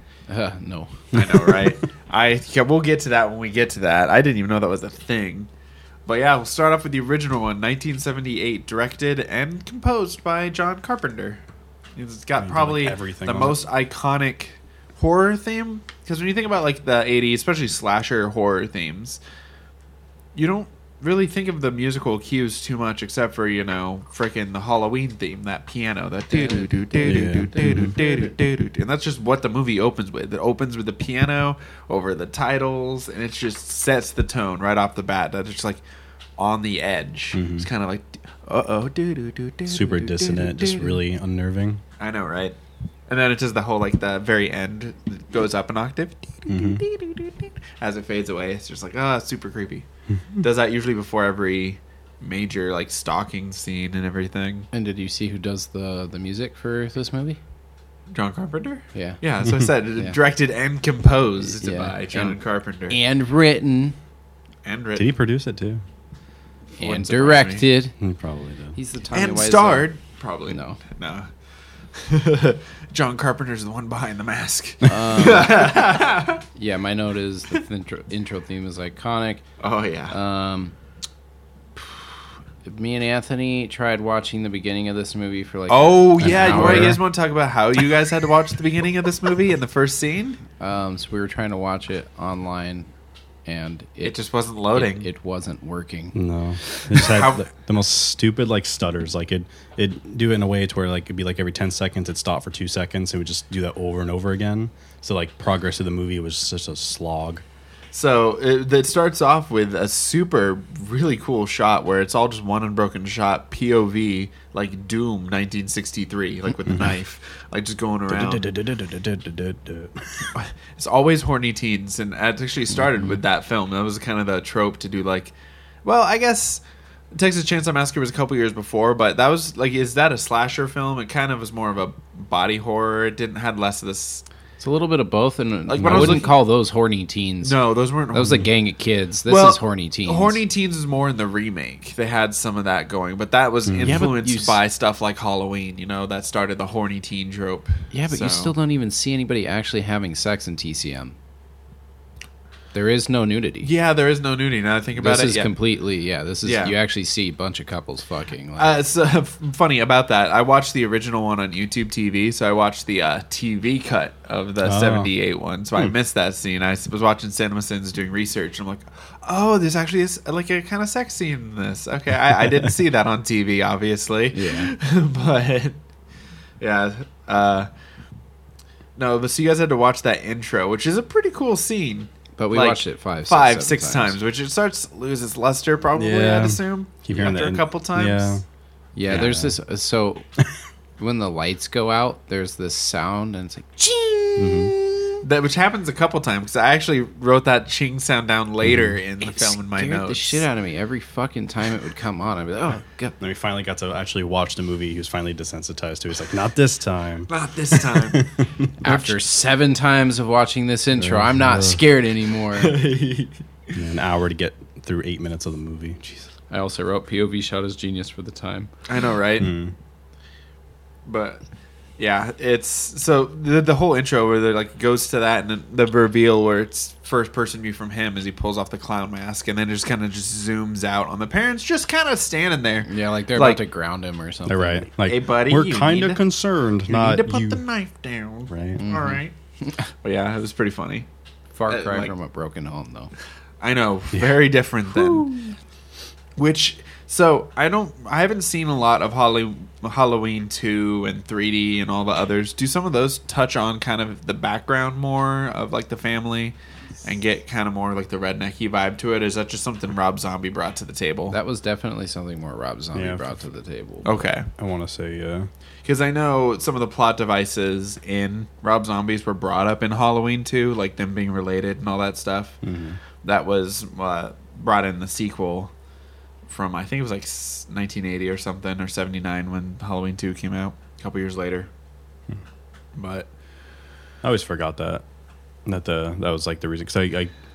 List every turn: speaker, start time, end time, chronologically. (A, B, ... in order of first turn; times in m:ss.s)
0:00.3-0:01.1 A
0:01.1-0:01.7 B
0:01.1-0:05.5 C
0:06.1-0:11.4 C
0:12.0-0:19.2 C
0:12.4-0:13.6 B
0:20.4-0:35.8 C
0:26.3-0:28.4 A
0:27.0-0:27.9 B
0:36.4-0:41.0 C
0:37.3-0:37.7 B
0:39.7-0:41.8 B
0:42.0-0:42.6 C
0:43.1-0:49.8 C
0:46.5-0:46.8 B
0:50.4-0:54.7 C
0:54.7-0:57.4 A
0:58.1-1:03.0 C
0:58.9-0:59.2 A
1:01.4-1:02.4 A
1:02.9-1:04.0 A
1:04.6-1:05.1 C
1:05.0-1:05.8 B
1:06.8-1:08.0 A
1:06.8-1:07.7 C
1:08.0-1:08.8 B
1:08.8-1:09.9 A
1:09.1-1:11.3 C
1:10.5-1:10.8 A
1:11.9-1:16.4 C
1:14.8-1:15.9 A
1:16.6-1:19.4 A
1:19.6-1:20.2 C
1:20.1-1:20.7 A
1:22.6-1:27.0 A
1:25.7-1:30.4 C
1:26.2-1:27.0 B
1:30.6-1:32.9 A
1:33.5-1:34.2 A
1:34.0-1:35.1 C
1:34.7-1:36.2 A
1:36.1-1:47.4 B
1:36.9-1:37.5 C
1:47.9-1:58.5 C
1:58.1-2:00.3 B
2:00.3-2:05.3 C
2:05.8-2:06.6 C
2:07.1-2:14.2 C
2:14.6-2:17.6 A
2:15.7-2:16.3 C
2:15.8-2:16.2 B
2:17.4-2:18.5 C
2:18.1-2:20.4 A
2:19.3-2:28.5 C
2:23.7-2:24.1 B
2:23.8-2:24.6 A
2:27.9-2:31.2 A
2:32.7-2:33.7 A
2:33.6-2:35.5 C
2:35.0-2:38.8 A
2:36.4-2:36.8 C
2:38.6-2:55.8 C
2:44.6-2:45.1 B
2:54.3-2:54.7 A
2:56.6-2:57.7 C
2:59.0-3:08.4 C
3:02.4-3:04.2 A
3:05.9-3:08.4 B
3:09.0-3:10.2 A
3:09.1-3:09.6 B
3:11.0-3:15.2 A
3:14.4-3:14.7 B
3:15.2-3:20.4 C
3:18.6-3:19.0 B
3:19.2-3:23.2 A
3:23.2-3:28.7 B
3:27.3-3:28.3 C
3:28.8-3:32.8 A
3:28.8-3:29.2 C
3:31.0-3:31.8 B
3:32.6-3:33.8 C
3:33.7-3:36.3 B
3:36.5-3:38.7 A
3:38.9-3:39.5 C
3:39.4-3:39.7 B
3:41.1-3:41.4 C
3:42.0-3:53.6 C
3:52.8-3:54.9 A
3:54.5-3:57.6 B
3:55.0-3:56.2 C
3:56.9-3:59.3 C
3:58.5-3:58.8 B
3:58.8-3:59.9 A
4:00.0-4:01.1 C
4:01.5-4:03.1 A
4:01.7-4:02.1 C
4:03.6-4:05.5 C
4:06.4-4:21.4 C
4:21.3-4:24.3 A
4:23.0-4:23.3 B
4:24.0-4:24.5 C
4:24.6-4:25.5 B
4:25.8-4:32.6 C
4:32.6-4:33.0 B
4:33.2-4:35.7 C
4:36.5-4:41.7 C
4:43.0-4:43.3 C
4:44.2-4:45.0 B
4:45.7-4:47.3 B